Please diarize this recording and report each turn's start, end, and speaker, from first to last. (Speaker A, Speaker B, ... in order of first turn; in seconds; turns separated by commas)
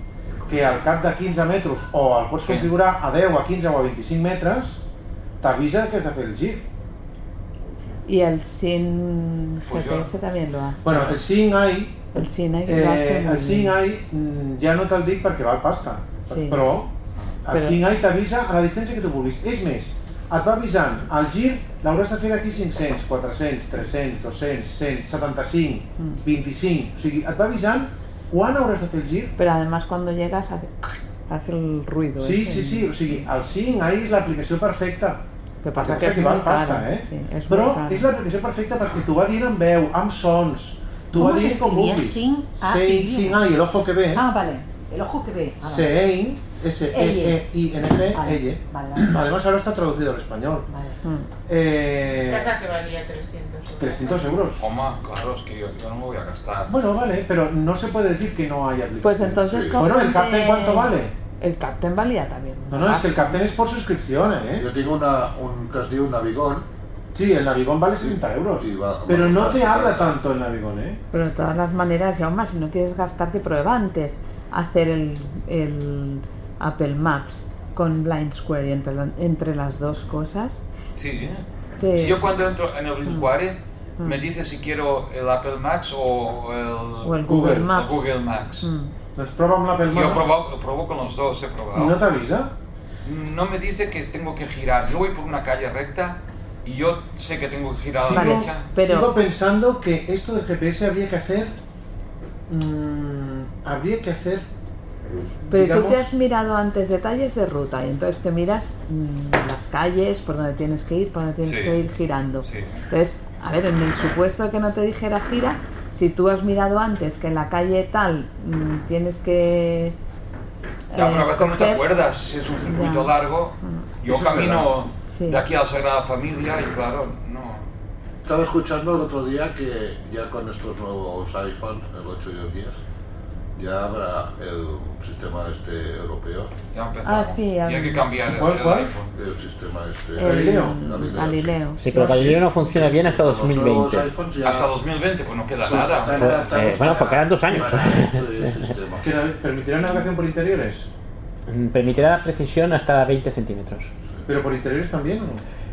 Speaker A: 0.5-4.8, Speaker B: 2.5-2.7, Speaker A: 5.4-6.7, Speaker C: 8.1-10.9, Speaker B: 9.7-10.1, Speaker A: 10.8-12.0, Speaker C: 12.1-13.8, Speaker A: 12.7-16.9, Speaker C: 16.3-16.7, Speaker A: 17.4-29.3, Speaker C: 17.5-17.8, Speaker C: 29.4-33.0, Speaker A: 32.2-35.2, Speaker C: 35.6-38.1, Speaker A: 35.7-44.2, Speaker D: 41.1-43.4, Speaker D: 44.1-46.0, Speaker A: 45.6-50.7, Speaker D: 46.9-47.4, Speaker D: 48.1-49.2, Speaker D: 50.7-51.0, Speaker C: 51.0-51.3, Speaker A: 51.5-52.6, Speaker E: 52.1-54.5, Speaker A: 53.8-54.6, Speaker B: 54.6-56.8, Speaker A: 56.7-61.1, Speaker C: 59.0-63.4, Speaker F: 59.5-59.8, Speaker A: 62.7-64.7, Speaker F: 64.5-66.7, Speaker A: 67.1-71.0, Speaker F: 68.0-70.2, Speaker C: 71.1-80.6, Speaker B: 80.9-88.7, Speaker C: 81.8-82.2, Speaker C: 87.0-88.9, Speaker A: 87.2-87.7, Speaker A: 89.2-90.3, Speaker B: 89.9-92.0, Speaker A: 91.7-92.5, Speaker B: 93.0-98.7, Speaker A: 97.9-101.5, Speaker C: 98.1-99.1, Speaker A: 102.5-104.5, Speaker A: 105.5-106.1, Speaker C: 105.5-120.0, Speaker B: 111.4-111.8, Speaker B: 112.4-112.8, Speaker C: 120.9-121.8, Speaker B: 120.9-127.6, Speaker C: 122.7-123.9, Speaker A: 124.0-124.7, Speaker C: 125.1-125.4, Speaker F: 128.2-132.8, Speaker F: 133.5-136.5, Speaker B: 136.7-139.1, Speaker C: 137.0-138.1, Speaker A: 138.3-138.9, Speaker F: 139.1-144.8, Speaker C: 140.2-142.2, Speaker A: 140.2-140.9, Speaker G: 141.8-144.1, Speaker B: 144.4-146.4, Speaker F: 145.6-149.1, Speaker G: 146.1-148.6, Speaker A: 149.0-150.9, Speaker G: 151.5-153.9, Speaker A: 154.3-155.4